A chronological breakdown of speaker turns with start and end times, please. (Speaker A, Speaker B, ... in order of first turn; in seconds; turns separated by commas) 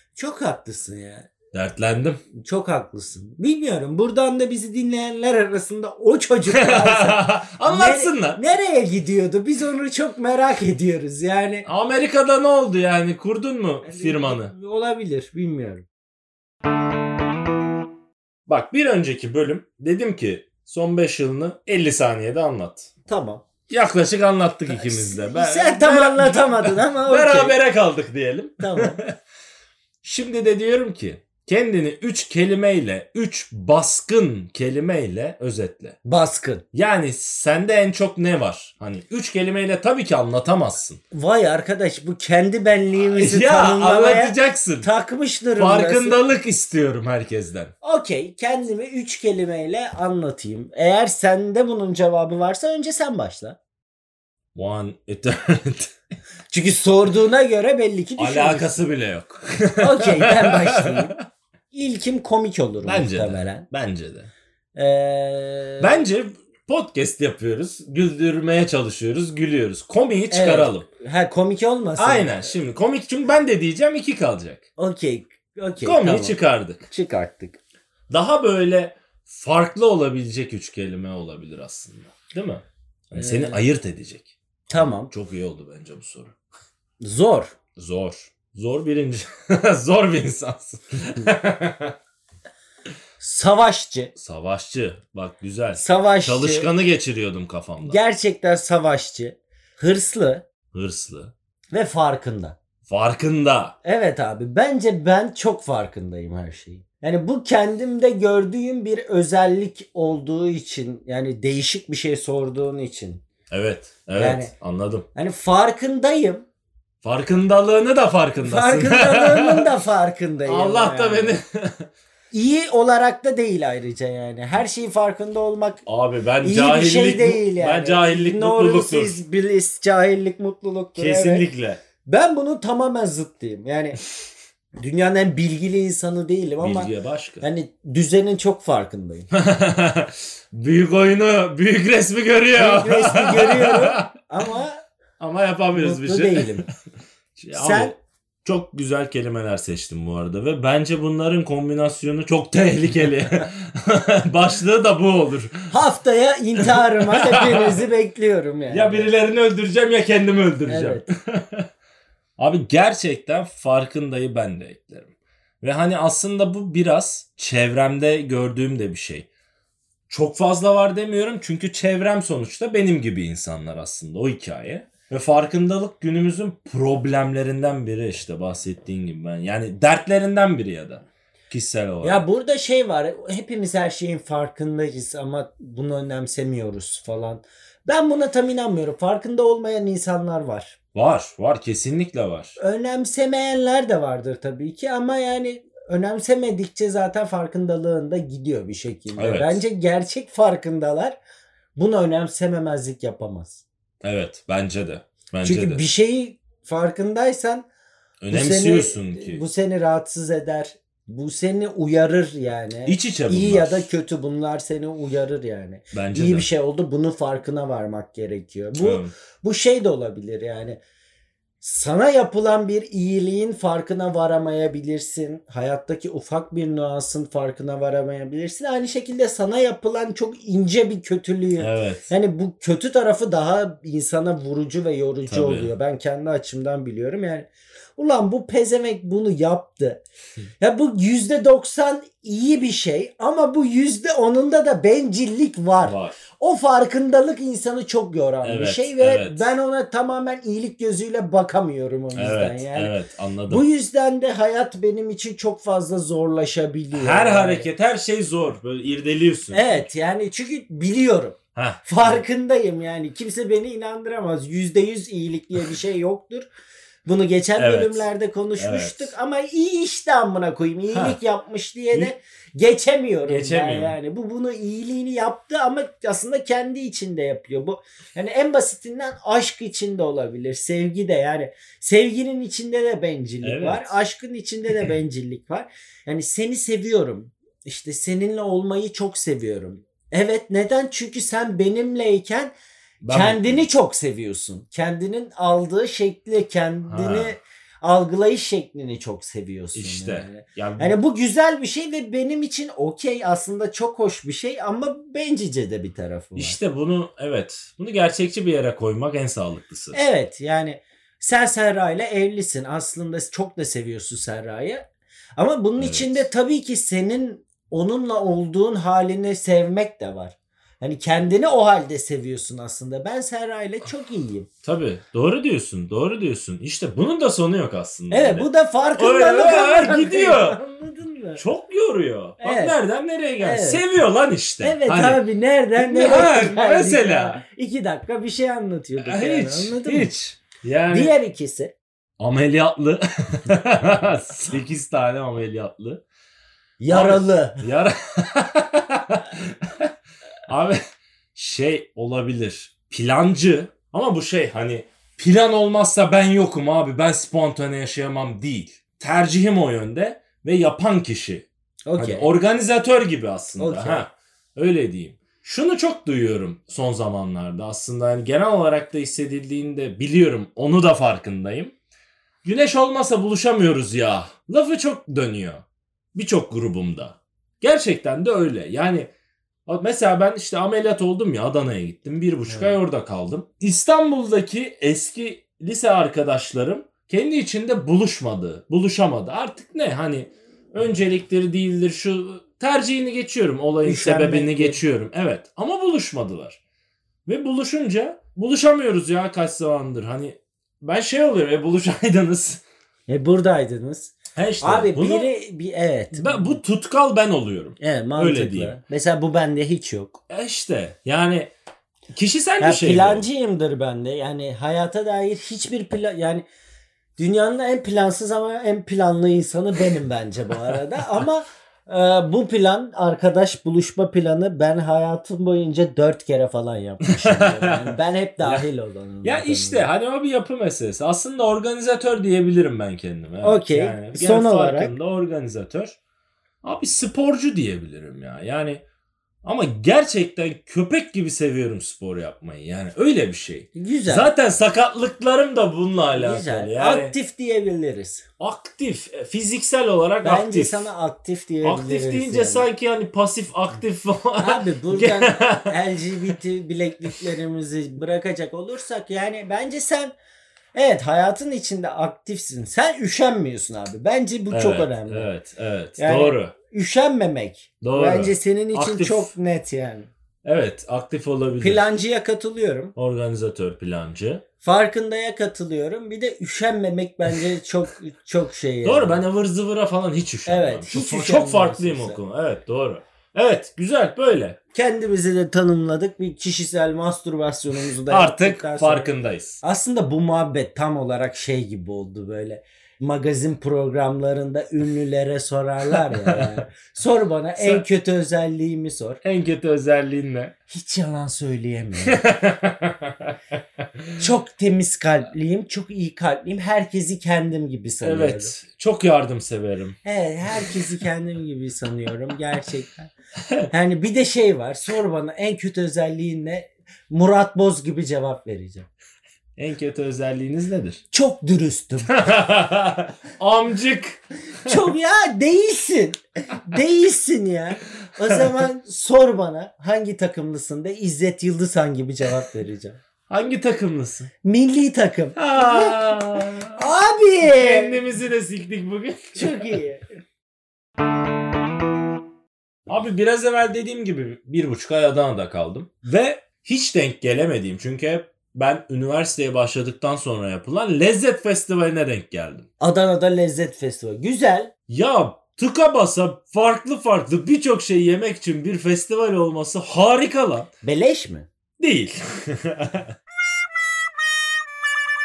Speaker A: 0.2-1.3, Speaker B: 1.5-2.2, Speaker A: 2.4-11.7, Speaker B: 6.5-8.4, Speaker B: 11.7-14.5, Speaker A: 13.8-15.9, Speaker B: 18.5-22.9, Speaker A: 23.1-23.4, Speaker B: 23.7-29.2, Speaker A: 24.7-27.6, Speaker A: 28.6-29.0, Speaker B: 30.0-36.0, Speaker A: 36.0-36.6, Speaker B: 36.7-41.0, Speaker A: 41.1-46.2, Speaker B: 43.0-44.9, Speaker B: 45.6-47.7, Speaker A: 47.8-53.6, Speaker B: 54.5-55.9, Speaker A: 56.5-58.8, Speaker B: 58.2-61.1, Speaker A: 59.8-61.2, Speaker A: 61.7-63.6, Speaker B: 62.8-64.3, Speaker A: 64.8-66.0, Speaker B: 65.8-70.9, Speaker A: 70.3-72.5, Speaker B: 72.0-74.7, Speaker A: 74.8-77.6, Speaker B: 75.8-76.9, Speaker B: 78.1-86.4, Speaker A: 83.1-83.6, Speaker A: 84.7-85.1, Speaker A: 87.0-87.5, Speaker B: 87.8-92.0, Speaker A: 93.2-94.1, Speaker B: 94.2-98.0, Speaker A: 95.8-96.7, Speaker A: 97.8-100.4, Speaker B: 100.7-101.3, Speaker A: 101.7-102.6, Speaker B: 102.9-103.7, Speaker A: 103.8-113.2, Speaker B: 113.5-115.1, Speaker A: 114.2-114.5, Speaker A: 115.1-116.5, Speaker B: 117.0-119.7, Speaker A: 118.4-121.4, Speaker B: 120.5-121.9, Speaker A: 122.3-125.8, Speaker B: 125.9-129.2, Speaker A: 126.4-131.5, Speaker B: 131.0-131.8, Speaker A: 132.1-134.0, Speaker A: 134.8-139.3, Speaker B: 136.6-137.4, Speaker B: 139.3-144.1, Speaker A: 142.5-144.8, Speaker B: 145.2-146.7, Speaker A: 145.7-146.7, Speaker B: 147.4-155.7, Speaker A: 147.5-147.9, Speaker A: 155.7-159.1, Speaker B: 156.6-157.8, Speaker B: 158.7-161.7, Speaker A: 160.7-161.1, Speaker B: 162.4-169.3, Speaker B: 170.1-182.2, Speaker A: 182.0-190.8, Speaker B: 190.9-192.6, Speaker A: 192.6-201.2, Speaker B: 199.2-199.6, Speaker A: 201.8-203.6, Speaker B: 204.0-205.8, Speaker A: 205.4-207.7, Speaker B: 208.2-209.4, Speaker A: 208.3-220.8, Speaker B: 212.9-213.9, Speaker B: 215.9-216.5, Speaker B: 218.8-219.1, Speaker A: 221.6-240.0, Speaker B: 231.6-232.1, Speaker B: 235.3-235.7, Speaker A: 240.6-252.9, Speaker B: 245.8-246.2, Speaker B: 248.4-249.5, Speaker B: 252.1-253.6, Speaker A: 253.5-257.7, Speaker B: 256.9-259.9, Speaker A: 259.5-266.5, Speaker B: 261.6-262.2, Speaker A: 267.1-292.5, Speaker B: 267.6-268.1, Speaker B: 268.6-269.1, Speaker B: 270.9-271.2, Speaker B: 273.3-274.0, Speaker B: 283.4-283.9, Speaker B: 293.0-293.7, Speaker A: 293.1-306.6, Speaker B: 296.9-297.4, Speaker B: 299.7-301.0, Speaker B: 306.4-310.0, Speaker A: 309.9-314.9, Speaker A: 315.4-324.5, Speaker B: 315.8-316.3, Speaker B: 324.6-330.6, Speaker A: 328.1-331.4, Speaker B: 331.4-335.2, Speaker A: 332.4-332.8, Speaker A: 333.4-333.8, Speaker A: 334.6-340.1, Speaker B: 335.8-337.4, Speaker B: 339.0-341.1, Speaker A: 340.9-341.7, Speaker B: 342.2-346.0, Speaker A: 346.8-347.6, Speaker B: 346.9-349.9, Speaker B: 350.5-350.8, Speaker B: 351.4-371.7, Speaker A: 361.9-362.3, Speaker A: 363.6-364.1, Speaker B: 372.4-379.1, Speaker B: 379.7-396.6, Speaker A: 382.5-382.8, Speaker A: 393.8-394.8, Speaker B: 397.3-402.6, Speaker A: 403.1-406.6, Speaker B: 404.4-405.3, Speaker B: 406.1-408.8, Speaker A: 407.8-410.2, Speaker B: 410.3-411.5, Speaker B: 412.1-413.3, Speaker A: 412.6-416.4, Speaker A: 417.2-429.9, Speaker B: 427.1-428.6, Speaker B: 429.2-436.0, Speaker A: 433.4-434.9, Speaker B: 436.6-438.8, Speaker B: 439.4-447.1, Speaker A: 443.8-444.3, Speaker A: 446.1-448.3, Speaker B: 448.4-450.8, Speaker A: 450.2-452.7, Speaker B: 451.6-455.7, Speaker A: 454.4-460.1, Speaker A: 460.7-465.3, Speaker B: 464.5-466.5, Speaker A: 466.0-470.1, Speaker B: 467.8-469.3, Speaker B: 470.4-471.9, Speaker A: 471.6-472.9, Speaker B: 473.0-474.4, Speaker A: 474.6-479.2, Speaker B: 478.8-484.6, Speaker A: 480.5-482.2, Speaker A: 484.7-499.2, Speaker B: 488.1-489.6, Speaker B: 496.0-496.6, Speaker B: 497.6-497.8, Speaker B: 499.2-500.5, Speaker A: 500.7-502.2, Speaker B: 502.0-504.2, Speaker A: 504.2-508.6, Speaker B: 508.0-510.0, Speaker A: 510.1-513.1, Speaker B: 510.5-510.8, Speaker B: 513.4-513.7, Speaker A: 513.7-518.9, Speaker B: 519.6-521.0, Speaker A: 521.1-522.2, Speaker B: 522.1-524.8, Speaker A: 524.6-533.0, Speaker B: 533.3-534.3, Speaker A: 534.4-538.0, Speaker B: 535.4-536.8, Speaker B: 537.5-539.8, Speaker A: 539.4-540.0, Speaker B: 542.9-552.7, Speaker A: 552.8-554.7, Speaker B: 554.9-560.7, Speaker A: 560.8-561.5, Speaker B: 561.8-563.1